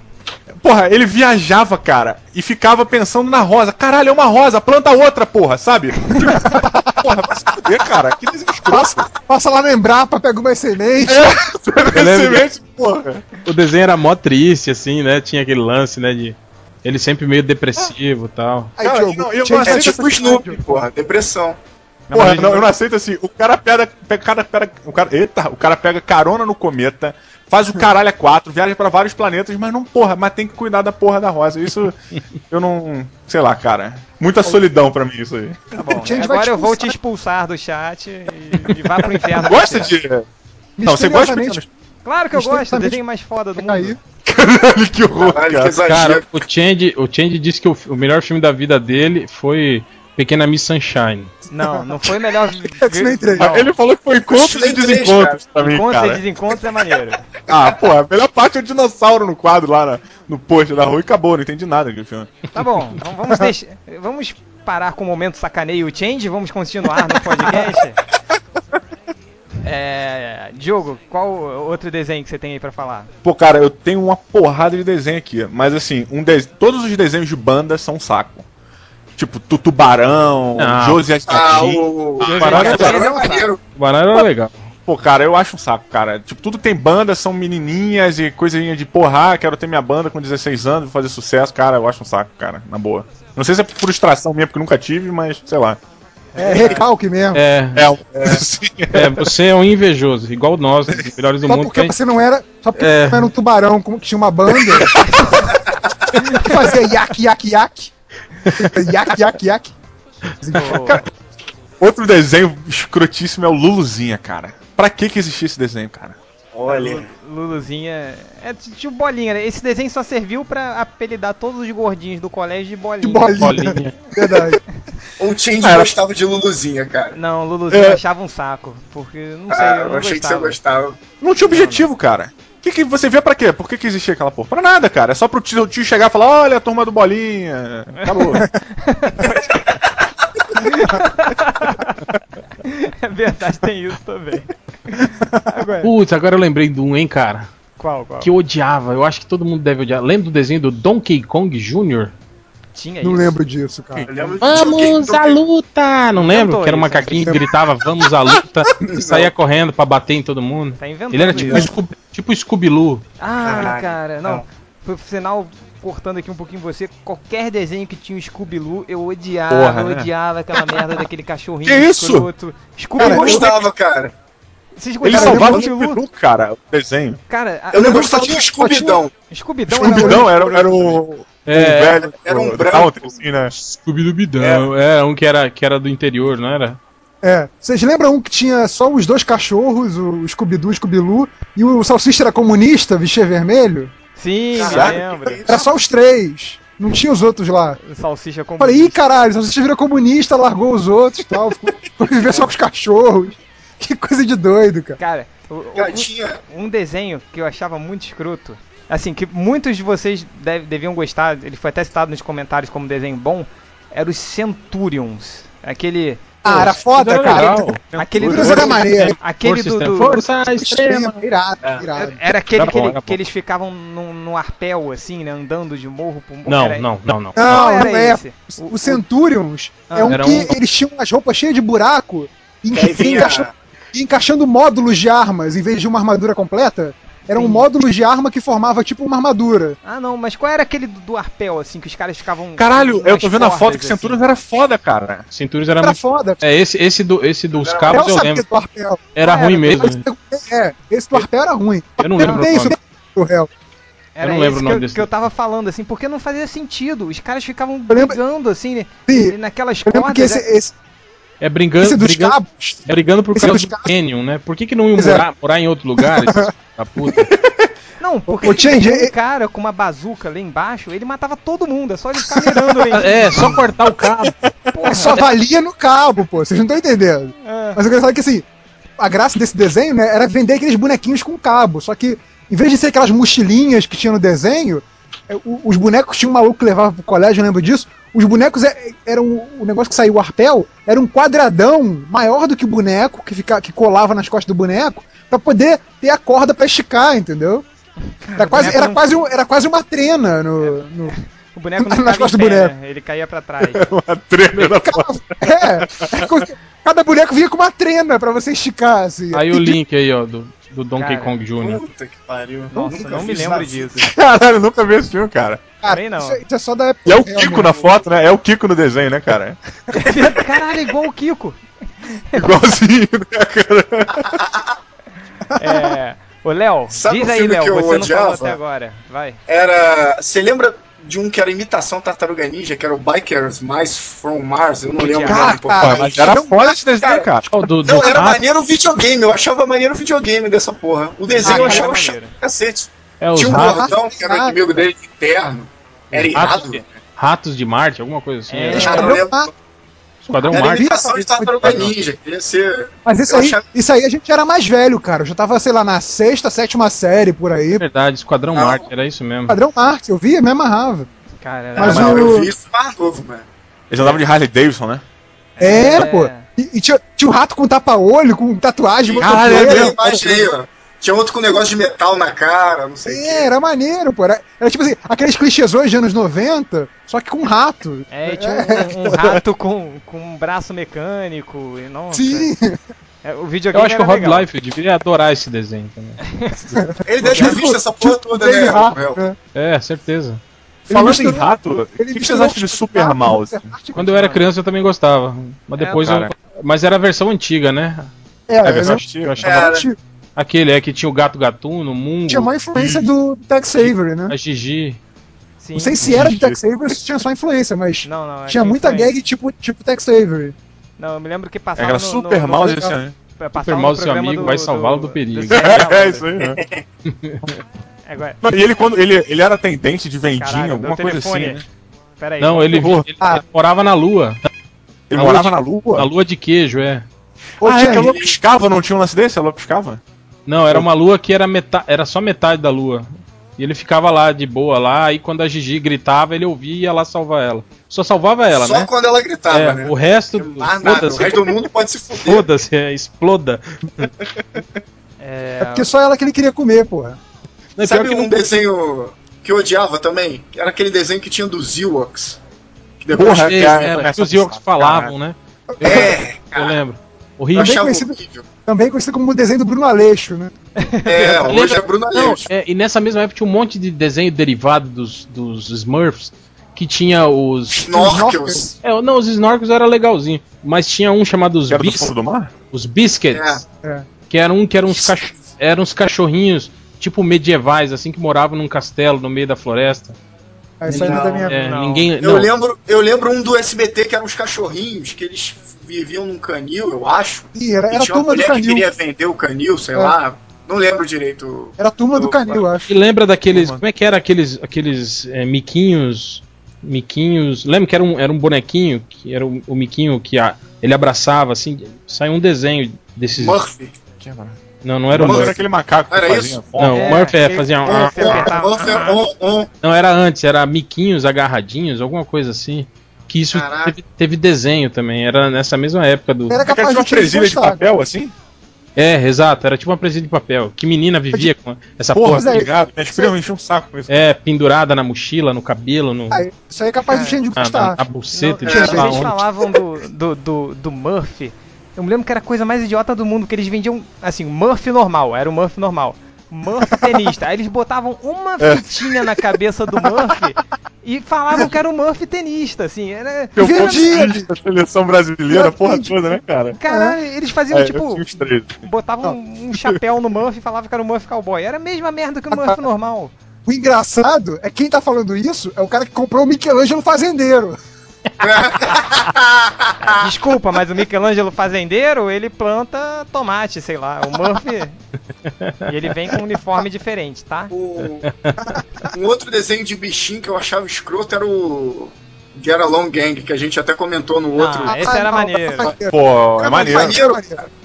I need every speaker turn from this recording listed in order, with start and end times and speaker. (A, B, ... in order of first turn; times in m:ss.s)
0:00.5-0:09.1 A
0:06.3-0:07.1 B
0:08.7-0:11.4 B
0:11.0-0:13.2 A
0:11.8-0:12.4 C
0:13.4-0:18.7 C
0:18.8-0:20.8 B
0:18.8-0:20.0 A
0:19.6-0:21.6 D
0:22.1-0:22.7 E
0:22.1-0:32.0 A
0:32.5-0:35.6 A
0:35.7-0:39.9 E
0:35.9-0:37.0 B
0:39.4-0:40.2 A
0:40.8-0:41.6 B
0:40.8-0:41.7 A
0:42.0-0:44.0 E
0:42.3-0:43.0 B
0:43.6-0:44.0 B
0:44.2-0:45.8 A
0:45.1-0:46.3 D
0:45.8-0:51.3 C
0:51.5-0:53.7 E
0:51.6-0:52.0 B
0:52.8-0:53.5 B
0:53.4-0:56.2 A
0:54.3-0:55.4 D
0:55.6-0:57.2 E
0:57.5-1:02.4 A
1:02.5-1:08.0 E
1:09.6-1:13.1 E
1:13.2-1:18.4 A
1:19.2-1:23.0 A
1:20.6-1:21.7 C
1:21.3-1:23.6 D
1:22.2-1:23.5 E
1:22.2-1:23.0 C
1:23.8-1:24.7 C
1:24.8-1:35.8 A
1:36.3-1:36.8 E
1:36.4-1:37.4 B
1:37.3-1:37.9 C
1:37.7-1:39.2 A
1:38.9-1:41.9 C
1:41.5-1:45.0 B
1:42.8-1:43.3 C
1:44.9-1:45.5 E
1:46.2-1:46.5 E
1:46.3-1:47.9 B
1:48.5-1:49.7 B
1:50.4-1:51.0 B
1:50.5-1:51.0 E
1:51.8-1:56.2 A
1:56.5-1:57.1 D
1:56.6-2:03.7 E
2:03.0-2:04.6 B
2:03.4-2:04.0 C
2:05.2-2:07.1 D
2:05.6-2:05.9 A
2:07.1-2:10.6 E
2:07.7-2:08.0 A
2:09.5-2:11.0 D
2:11.2-2:18.4 A
2:11.4-2:11.9 E
2:18.0-2:19.5 E
2:20.6-2:22.0 E
2:22.6-2:25.9 E
2:25.8-2:27.5 C
2:27.8-2:28.3 E
2:28.2-2:32.1 C
2:32.7-2:33.4 E
2:33.0-2:34.1 B
2:34.1-2:35.4 D
2:34.4-2:43.0 C
2:36.1-2:37.4 E
2:38.8-2:39.3 D
2:40.8-2:41.7 E
2:43.2-2:53.6 E
2:43.4-2:44.4 D
2:49.5-2:50.1 A
2:51.6-2:52.3 A
2:53.0-2:53.5 B
2:53.0-2:54.1 D
2:54.8-2:56.0 E
2:55.0-2:57.2 A
2:55.1-2:55.7 B
2:57.3-2:58.5 E
2:57.7-2:59.1 D
2:57.8-2:59.0 B
2:59.3-3:01.0 E
2:59.7-3:00.4 B
2:59.8-3:03.5 A
3:01.4-3:02.0 C
3:02.0-3:03.2 D
3:03.5-3:06.8 C
3:04.4-3:04.7 D
3:07.2-3:13.9 B
3:14.2-3:15.6 E
3:14.6-3:15.6 D
3:14.7-3:14.9 A
3:15.5-3:17.8 B
3:17.8-3:19.0 E
3:18.6-3:25.0 B
3:25.0-3:36.7 E
3:25.8-3:26.4 D
3:36.4-3:37.7 B
3:36.7-3:41.2 C
3:37.9-3:38.5 A
3:38.0-3:40.3 E
3:38.2-3:39.2 B
3:40.5-3:42.2 B
3:41.9-3:49.0 E
3:42.6-3:43.2 C
3:46.4-3:47.4 C
3:47.4-3:59.8 B
3:49.9-3:50.2 E
3:50.1-3:50.5 C
3:52.7-3:53.5 D
3:57.3-3:57.6 E
3:59.8-4:04.2 E
4:02.6-4:05.2 A
4:05.3-4:08.4 C
4:05.8-4:06.4 B
4:07.6-4:08.0 D
4:07.9-4:13.5 B
4:09.2-4:10.0 C
4:09.2-4:09.8 E
4:12.0-4:12.7 C
4:12.2-4:12.5 E
4:14.2-4:20.5 E
4:14.2-4:15.1 C
4:17.9-4:18.2 B
4:19.1-4:20.7 B
4:21.4-4:27.3 C
4:21.8-4:23.9 B
4:24.9-4:25.2 B
4:26.0-4:26.5 B
4:27.3-4:27.7 A
4:28.0-4:33.5 E
4:28.4-4:29.1 B
4:32.9-4:34.4 C
4:34.7-4:35.2 E
4:34.8-4:38.4 B
4:37.4-4:37.8 E
4:39.0-4:57.6 B
4:58.2-4:59.2 E
4:58.4-5:01.1 B
5:00.6-5:03.8 E
5:01.8-5:02.7 B
5:03.6-5:06.3 A
5:04.7-5:09.8 B
5:09.3-5:11.8 C
5:11.0-5:11.3 E
5:11.6-5:13.9 D
5:12.7-5:14.1 E
5:12.8-5:13.2 B
5:14.0-5:15.6 A
5:15.8-5:17.8 B
5:15.9-5:16.4 E
5:17.0-5:19.6 A
5:19.9-5:22.6 E
5:22.3-5:24.3 A
5:24.2-5:24.8 D
5:25.5-5:29.4 E
5:25.6-5:25.9 B
5:26.9-5:28.6 D
5:29.5-5:36.4 D
5:35.0-5:35.6 E
5:35.2-5:37.6 A
5:35.3-5:36.8 B
5:37.0-5:37.3 D
5:37.5-5:38.4 C
5:37.8-5:46.9 D
5:41.4-5:42.4 E
5:41.4-5:41.9 B
5:43.2-5:43.9 C
5:43.5-5:44.8 B
5:46.1-5:49.1 C
5:48.5-5:49.2 E
5:48.7-5:49.5 B
5:48.8-5:49.5 D
5:50.2-5:50.9 C
5:50.3-5:51.9 B
5:50.5-5:53.6 D
5:51.6-5:51.9 A
5:53.0-5:57.8 B
5:57.8-5:59.6 C
5:58.5-5:58.8 D
5:59.5-6:01.1 B
6:01.4-6:02.3 E
6:01.8-6:02.5 B
6:01.8-6:03.5 D
6:03.9-6:05.0 A
6:05.6-6:06.4 E
6:05.6-6:10.0 B
6:09.0-6:13.5 D
6:09.2-6:10.5 A
6:13.0-6:18.8 B
6:18.1-6:22.5 E
6:22.1-6:22.8 B
6:23.2-6:24.5 E
6:23.7-6:26.2 C
6:26.3-6:26.8 E
6:26.7-6:29.4 B
6:27.0-6:29.2 D
6:29.5-6:30.4 C
6:30.9-6:34.3 B
6:30.9-6:33.7 A
6:33.9-6:38.1 C
6:34.0-6:34.4 E
6:35.8-6:36.1 E
6:36.0-6:36.3 A
6:38.5-6:40.0 B
6:38.6-6:39.5 A
6:38.7-6:39.5 C
6:39.4-6:39.9 D
6:40.4-6:42.6 C
6:42.3-6:44.3 B
6:42.7-6:43.1 A
6:43.8-6:45.0 C
6:45.6-6:46.2 E
6:45.8-6:50.6 B
6:46.0-6:46.6 A
6:48.0-6:49.1 E
6:51.0-6:56.3 E
6:51.8-6:53.1 A
6:53.5-6:55.9 C
6:55.5-6:56.6 A
6:56.4-6:56.8 D
6:57.0-6:57.6 C
6:58.1-6:58.4 E
6:58.4-7:01.6 A
7:00.2-7:01.6 E
7:02.2-7:02.9 E
7:02.4-7:04.4 C
7:02.8-7:03.0 A
7:05.1-7:06.1 A
7:05.1-7:07.0 C
7:07.6-7:08.2 B
7:07.6-7:10.0 A
7:07.8-7:08.4 D
7:10.4-7:18.9 C
7:18.5-7:22.4 D
7:19.5-7:21.6 C
7:22.1-7:24.1 C
7:24.4-7:24.6 A
7:25.2-7:25.9 E
7:25.6-7:27.2 B
7:27.8-7:28.4 C
7:27.8-7:32.4 D
7:33.0-7:33.8 D
7:33.1-7:35.1 A
7:33.2-7:37.8 C
7:35.8-7:36.1 B
7:35.8-7:36.8 D
7:37.5-7:38.4 D
7:37.6-7:40.5 B
7:40.8-7:41.4 E
7:41.0-7:42.5 D
7:41.4-7:47.8 C
7:47.7-7:48.6 D
7:47.9-7:48.8 B
7:48.8-7:52.1 C
7:51.7-7:52.5 A
7:52.7-7:53.6 C
7:53.3-7:53.6 D
7:54.3-8:00.2 C
8:00.8-8:01.5 B
8:00.9-8:01.5 D
8:00.9-8:02.5 C
8:01.2-8:02.1 E
8:02.2-8:12.7 D
8:07.5-8:08.8 B
8:11.8-8:12.9 B
8:12.9-8:23.6 C
8:13.5-8:13.8 A
8:23.3-8:24.0 D
8:24.2-8:24.6 A
8:24.8-8:25.6 C
8:25.1-8:27.2 A
8:25.1-8:25.6 D
8:26.1-8:26.6 D
8:26.8-8:28.6 C
8:26.9-8:29.2 E
8:27.8-8:29.7 D
8:29.8-8:36.6 C
8:33.5-8:34.0 D
8:36.5-8:37.9 B
8:36.6-8:38.3 A
8:39.0-8:42.6 C
8:42.1-8:44.2 A
8:42.3-8:43.3 B
8:44.1-8:46.4 C
8:46.3-8:48.0 B
8:47.1-8:47.4 E
8:47.6-8:49.3 C
8:48.3-9:04.2 E
8:48.6-8:49.3 D
8:48.7-8:49.3 B
8:58.6-8:59.4 A
9:03.6-9:06.8 A
9:03.6-9:04.5 B
9:05.5-9:06.1 B
9:06.7-9:13.3 E
9:06.9-9:07.2 B
9:07.7-9:08.8 A
9:12.5-9:12.8 B
9:13.6-9:17.8 B
9:18.4-9:20.3 D
9:20.0-9:25.0 E
9:25.5-9:25.8 C
9:25.8-9:27.7 E
9:27.7-9:28.3 D
9:28.2-9:28.6 C
9:29.1-9:35.1 D
9:34.5-9:35.9 E
9:34.8-9:37.6 B
9:36.1-9:37.2 A
9:36.7-9:37.6 D